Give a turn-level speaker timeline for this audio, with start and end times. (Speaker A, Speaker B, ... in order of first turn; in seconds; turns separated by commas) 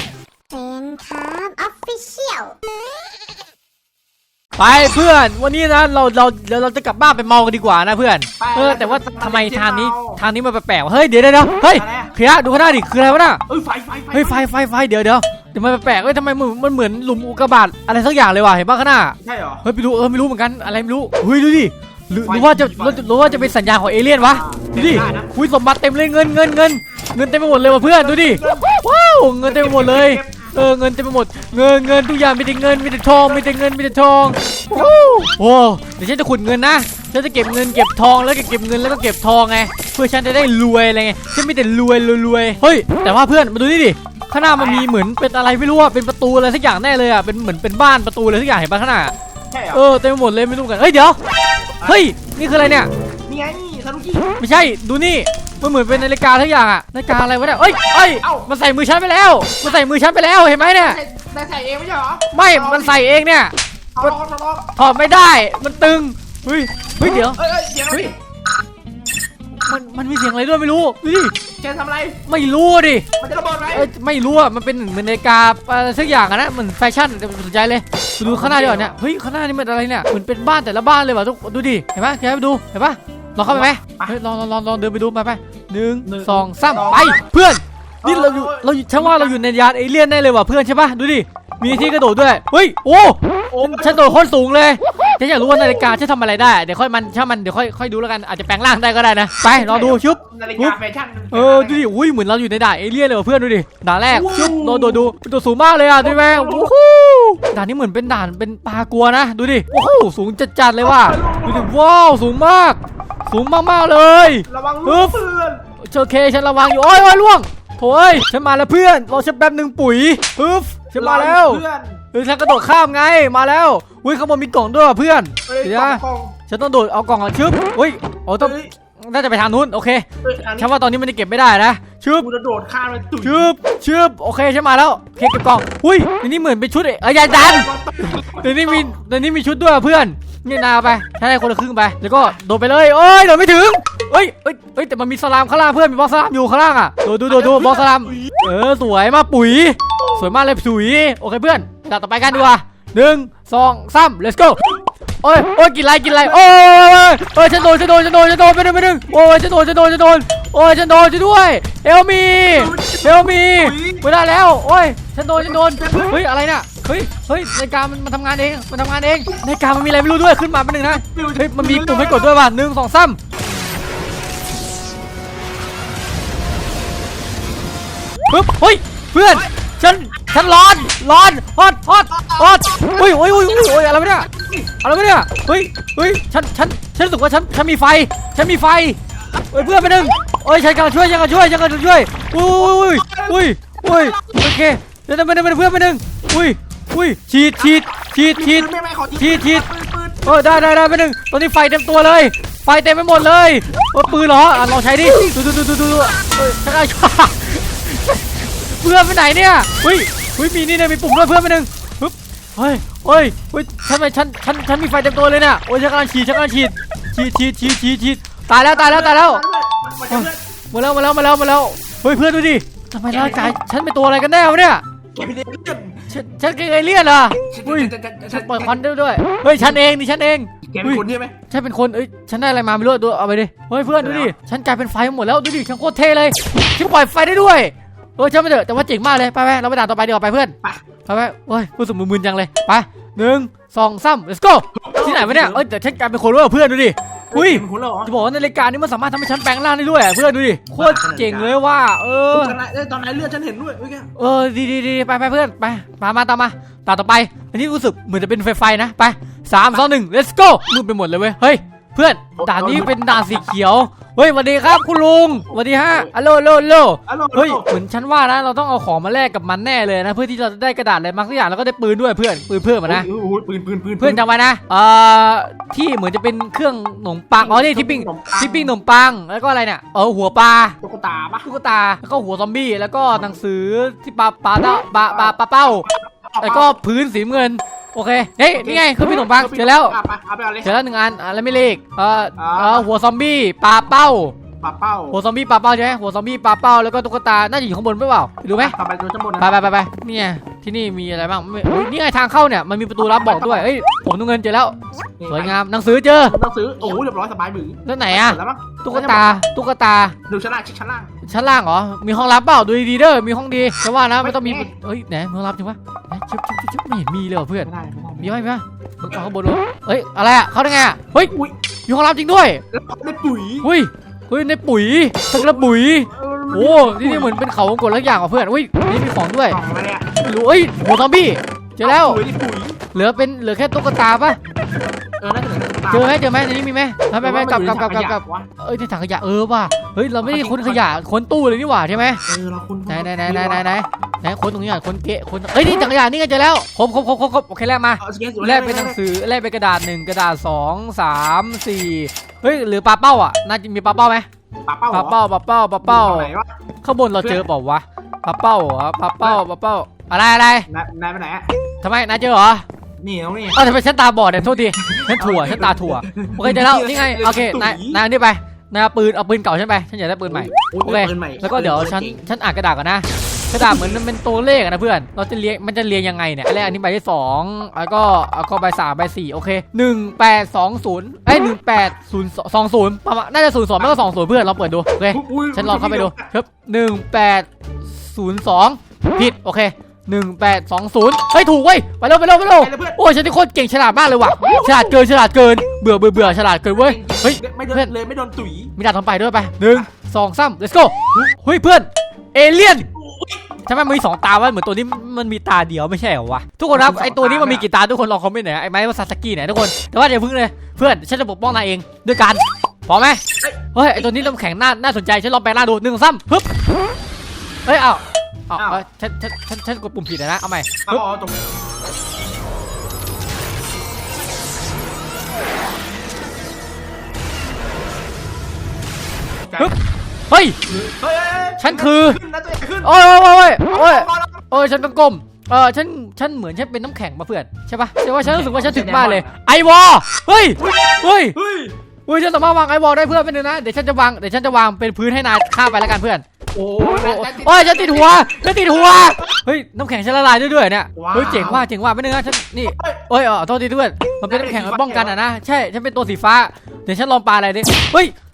Speaker A: 0.5-2.5, Speaker B: 4.6-13.4, Speaker C: 8.4-10.2, Speaker C: 11.7-12.1, Speaker C: 13.5-14.5, Speaker B: 14.1-49.1, Speaker C: 19.2-19.6, Speaker C: 22.2-23.6, Speaker C: 24.1-25.3, Speaker C: 27.6-28.7, Speaker C: 29.4-30.4, Speaker C: 44.5-44.9, Speaker C: 49.5-49.8, Speaker B: 49.7-51.2, Speaker C: 51.8-52.1, Speaker B: 51.8-52.9, Speaker C: 53.2-54.4, Speaker B: 54.4-61.0, Speaker C: 58.2-58.5, Speaker C: 60.8-63.0, Speaker B: 62.3-64.1, Speaker C: 63.9-64.7, Speaker B: 64.7-68.1, Speaker C: 67.3-68.2, Speaker B: 69.7-71.3, Speaker C: 71.5-72.2, Speaker B: 72.2-73.0, Speaker C: 73.2-73.9, Speaker B: 73.7-100.8, Speaker C: 78.2-79.0, Speaker C: 83.5-84.2, Speaker C: 86.0-87.3, Speaker C: 88.0-89.4, Speaker C: 91.7-91.9, Speaker C: 93.5-94.2, Speaker C: 99.5-101.8, Speaker B: 101.3-115.2, Speaker C: 104.1-105.1, Speaker C: 106.0-106.7, Speaker C: 110.8-111.7, Speaker C: 114.5-115.6, Speaker B: 115.8-132.3, Speaker C: 120.9-122.0, Speaker C: 125.5-126.3, Speaker C: 128.4-128.7, Speaker C: 130.2-130.7, Speaker C: 132.2-133.6, Speaker B: 133.2-154.6, Speaker C: 137.3-138.9, Speaker C: 147.3-148.4, Speaker B: 155.2-173.2, Speaker C: 156.1-156.4, Speaker C: 162.5-164.1, Speaker C: 165.4-166.2, Speaker C: 170.8-172.3, Speaker B: 178.3-184.3, Speaker C: 182.3-183.0, Speaker C: 183.7-184.7, Speaker B: 184.8-189.0, Speaker C: 189.4-190.2, Speaker B: 189.5-199.7, Speaker C: 192.7-194.3, Speaker C: 197.6-200.7, Speaker B: 200.2-219.4, Speaker C: 218.7-220.4, Speaker B: 220.1-224.8, Speaker C: 223.1-223.6, Speaker C: 225.1-226.0, Speaker B: 226.1-240.5, Speaker C: 227.5-228.8, Speaker C: 230.7-231.3, Speaker C: 233.9-234.3, Speaker B: 241.1-252.6, Speaker C: 244.7-245.6, Speaker C: 247.3-248.1, Speaker C: 250.7-251.6, Speaker C: 252.3-254.1, Speaker B: 254.2-273.1, Speaker C: 262.4-263.4, Speaker C: 265.8-266.1, Speaker C: 267.1-267.7, Speaker C: 272.9-274.2, Speaker B: 274.0-280.8, Speaker C: 277.4-278.7, Speaker C: 280.8-281.5, Speaker B: 281.4-285.9, Speaker C: 285.1-286.7, Speaker B: 286.4-289.9, Speaker C: 288.5-290.7, Speaker B: 290.6-294.4, Speaker C: 292.4-292.9, Speaker C: 294.6-295.2, Speaker B: 295.1-298.7, Speaker C: 298.6-299.6, Speaker B: 299.4-304.8, Speaker C: 303.0-303.7, Speaker C: 305.2-305.6, Speaker B: 305.3-306.3, Speaker C: 306.2-309.4, Speaker B: 307.8-310.1, Speaker C: 310.3-311.1, Speaker B: 311.2-321.3, Speaker C: 314.2-314.7, Speaker C: 317.6-318.3, Speaker C: 321.2-321.5, Speaker B: 321.9-322.6, Speaker C: 322.7-323.7, Speaker B: 323.6-329.6, Speaker C: 325.3-327.4, Speaker C: 329.5-330.1, Speaker B: 330.2-332.2, Speaker C: 331.8-332.8, Speaker B: 332.9-334.4, Speaker C: 335.2-336.2, Speaker B: 335.9-342.2, Speaker C: 337.2-338.5, Speaker C: 340.2-341.0, Speaker C: 342.3-343.7, Speaker B: 342.9-354.3, Speaker C: 348.0-349.0, Speaker C: 354.6-355.2, Speaker B: 354.9-356.3, Speaker C: 355.8-356.5, Speaker B: 356.8-360.7, Speaker C: 357.2-357.4, Speaker C: 360.7-361.5, Speaker B: 361.8-362.6, Speaker C: 363.0-363.6, Speaker B: 363.5-397.9, Speaker C: 364.8-368.0, Speaker C: 370.3-372.3, Speaker C: 373.6-374.0, Speaker C: 385.1-386.3, Speaker C: 392.5-393.0, Speaker C: 394.4-394.9, Speaker C: 396.1-398.7, Speaker B: 398.8-402.9, Speaker C: 402.8-403.5, Speaker B: 403.6-413.2, Speaker C: 406.7-407.7, Speaker C: 413.4-414.3, Speaker B: 413.7-416.5, Speaker B: 417.6-421.0, Speaker C: 418.6-418.8, Speaker C: 420.9-421.5, Speaker C: 429.4-429.7, Speaker B: 430.3-430.6, Speaker C: 430.7-432.9, Speaker B: 431.6-432.2, Speaker B: 432.8-441.4, Speaker C: 433.6-434.5, Speaker C: 438.2-439.3, Speaker C: 440.6-441.7, Speaker B: 442.1-446.2, Speaker C: 446.5-449.2, Speaker B: 446.9-458.1, Speaker C: 450.9-451.7, Speaker C: 452.7-453.0, Speaker C: 454.2-455.2